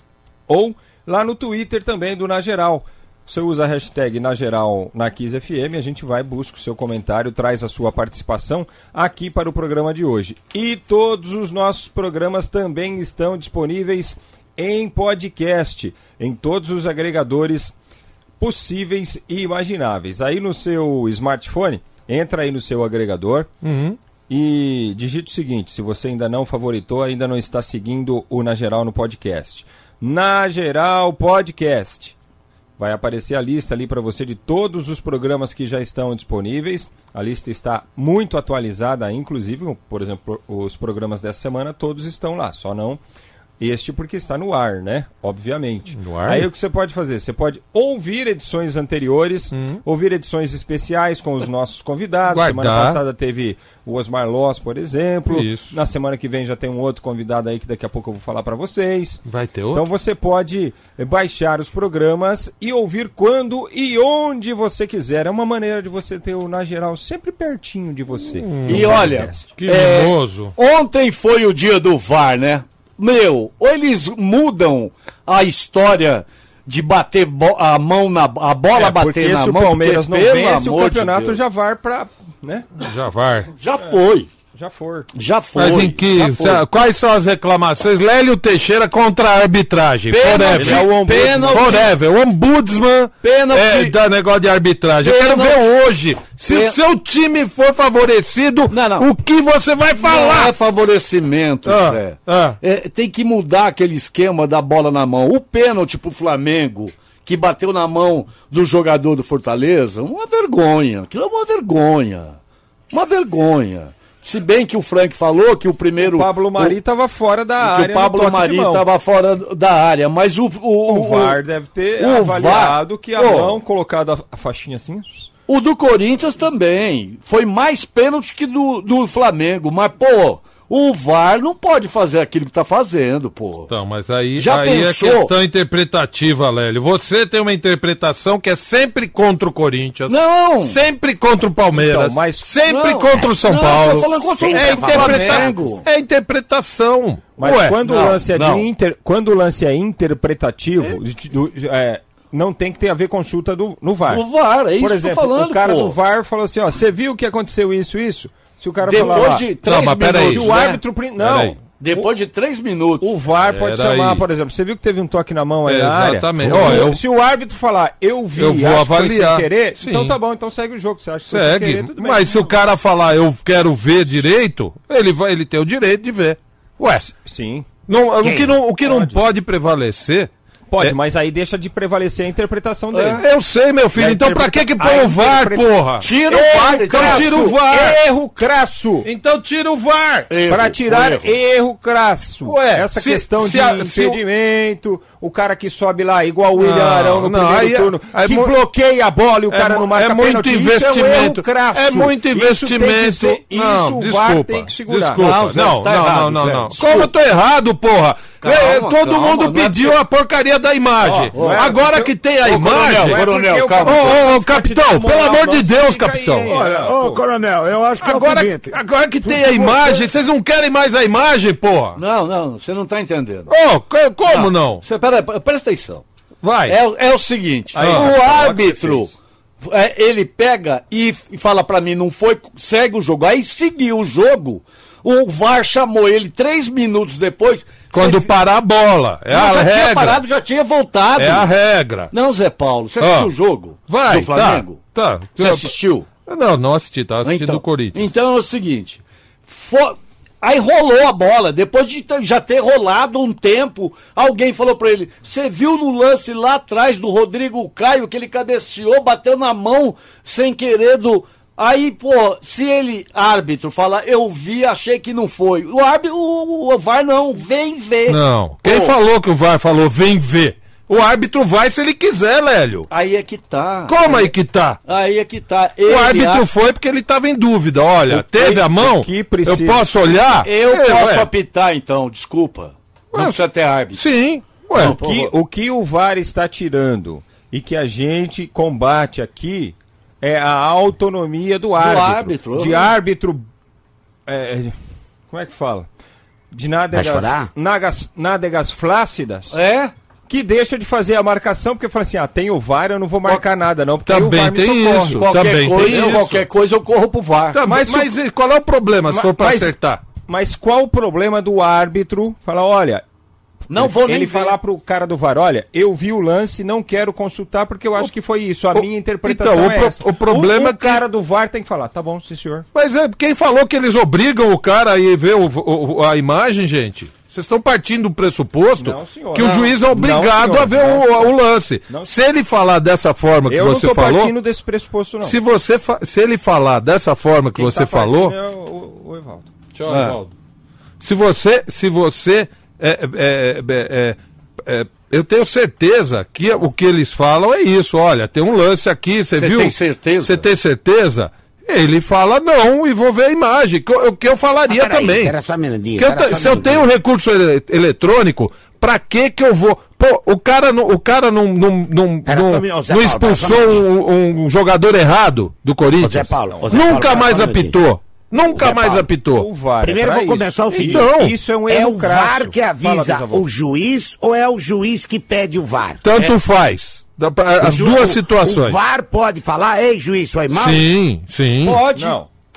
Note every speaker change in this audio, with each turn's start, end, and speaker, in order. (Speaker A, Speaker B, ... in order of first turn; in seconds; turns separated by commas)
Speaker A: 0.5-17.8, Speaker A: 18.4-23.5, Speaker B: 23.6-24.0, Speaker A: 24.3-32.1, Speaker A: 32.8-43.0, Speaker A: 43.6-69.5, Speaker B: 45.9-46.5, Speaker B: 49.5-49.8, Speaker B: 52.3-53.0, Speaker B: 55.3-55.7, Speaker B: 59.2-59.9, Speaker B: 68.4-70.5, Speaker C: 68.7-81.4, Speaker A: 78.7-82.7, Speaker B: 82.8-83.5, Speaker C: 83.5-84.3, Speaker A: 84.5-85.1, Speaker C: 85.1-86.7, Speaker B: 85.5-100.5, Speaker C: 90.1-91.9, Speaker A: 90.4-91.5, Speaker C: 93.2-94.0, Speaker C: 95.0-95.8, Speaker C: 96.5-96.8, Speaker C: 98.7-99.1, Speaker C: 100.0-112.4, Speaker B: 101.7-102.6, Speaker C: 112.9-116.8, Speaker A: 116.0-118.8, Speaker C: 117.6-121.4, Speaker A: 120.9-125.3, Speaker C: 122.0-123.6, Speaker C: 125.5-133.7, Speaker B: 133.7-147.8, Speaker C: 134.4-135.3, Speaker C: 140.1-140.8, Speaker A: 141.7-142.5, Speaker C: 142.6-145.8, Speaker D: 144.2-144.8, Speaker A: 144.5-145.5, Speaker A: 147.4-154.2, Speaker C: 147.8-148.7, Speaker C: 154.1-156.0, Speaker A: 154.8-159.5, Speaker C: 158.8-160.8, Speaker B: 159.6-160.6, Speaker A: 160.2-162.1, Speaker B: 161.2-161.6, Speaker C: 161.8-163.1, Speaker A: 163.0-172.5, Speaker B: 163.5-164.2, Speaker B: 165.7-167.0, Speaker B: 168.4-170.2, Speaker B: 171.3-177.1, Speaker A: 177.2-177.7, Speaker B: 177.9-180.3, Speaker D: 178.2-178.5, Speaker A: 178.8-179.2, Speaker A: 180.7-183.2, Speaker C: 182.9-183.2, Speaker B: 183.2-188.0, Speaker A: 184.0-185.8, Speaker C: 186.0-187.4, Speaker A: 186.3-189.1, Speaker B: 189.0-190.3, Speaker C: 190.3-191.3, Speaker A: 190.5-205.2, Speaker B: 192.4-194.2, Speaker B: 196.6-198.6, Speaker B: 199.5-213.3, Speaker C: 205.2-207.1, Speaker C: 208.4-210.0, Speaker C: 211.0-211.8, Speaker A: 211.3-217.2, Speaker C: 212.4-214.2, Speaker B: 213.8-216.5, Speaker E: 216.5-220.1, Speaker B: 218.0-222.0, Speaker C: 222.0-223.5, Speaker B: 223.5-224.8, Speaker C: 224.3-226.0, Speaker B: 226.4-226.8, Speaker C: 226.7-238.3, Speaker A: 227.7-229.1, Speaker B: 227.8-228.1, Speaker B: 237.9-240.2, Speaker C: 239.3-241.5, Speaker B: 241.2-242.1, Speaker C: 242.1-244.8, Speaker B: 243.0-243.3, Speaker B: 243.9-245.7, Speaker C: 245.4-246.1, Speaker B: 246.2-248.1, Speaker C: 247.2-269.0, Speaker B: 268.1-272.9, Speaker C: 272.9-274.3, Speaker B: 273.9-274.8, Speaker C: 274.9-276.5, Speaker B: 275.9-281.3, Speaker A: 278.1-279.9, Speaker C: 280.4-284.0, Speaker B: 283.1-283.4, Speaker B: 283.9-285.0, Speaker C: 284.7-285.3, Speaker A: 284.8-293.4, Speaker C: 291.8-292.9, Speaker A: 294.2-294.8, Speaker A: 295.3-295.9, Speaker A: 296.5-299.5, Speaker D: 296.9-297.5, Speaker C: 299.5-299.9, Speaker A: 300.3-305.2, Speaker B: 304.1-306.4, Speaker C: 305.2-307.6, Speaker B: 307.5-310.0, Speaker A: 307.6-308.1, Speaker A: 309.1-313.0, Speaker C: 313.7-314.6, Speaker A: 313.7-322.6, Speaker B: 318.8-321.0, Speaker B: 322.7-334.3, Speaker A: 328.8-331.4, Speaker A: 333.5-335.4, Speaker B: 335.2-338.4, Speaker A: 337.5-339.5, Speaker B: 339.7-340.3, Speaker C: 339.9-340.2, Speaker B: 341.0-355.4, Speaker C: 349.4-350.5, Speaker D: 354.7-356.9, Speaker B: 356.0-369.5, Speaker D: 362.2-363.8, Speaker D: 366.0-367.8, Speaker D: 368.5-369.1, Speaker A: 369.4-373.5, Speaker D: 369.8-371.1, Speaker B: 370.7-371.3, Speaker D: 371.7-376.0, Speaker B: 376.0-378.8, Speaker D: 377.6-380.9, Speaker B: 380.5-381.8, Speaker C: 381.6-382.2, Speaker A: 381.9-382.3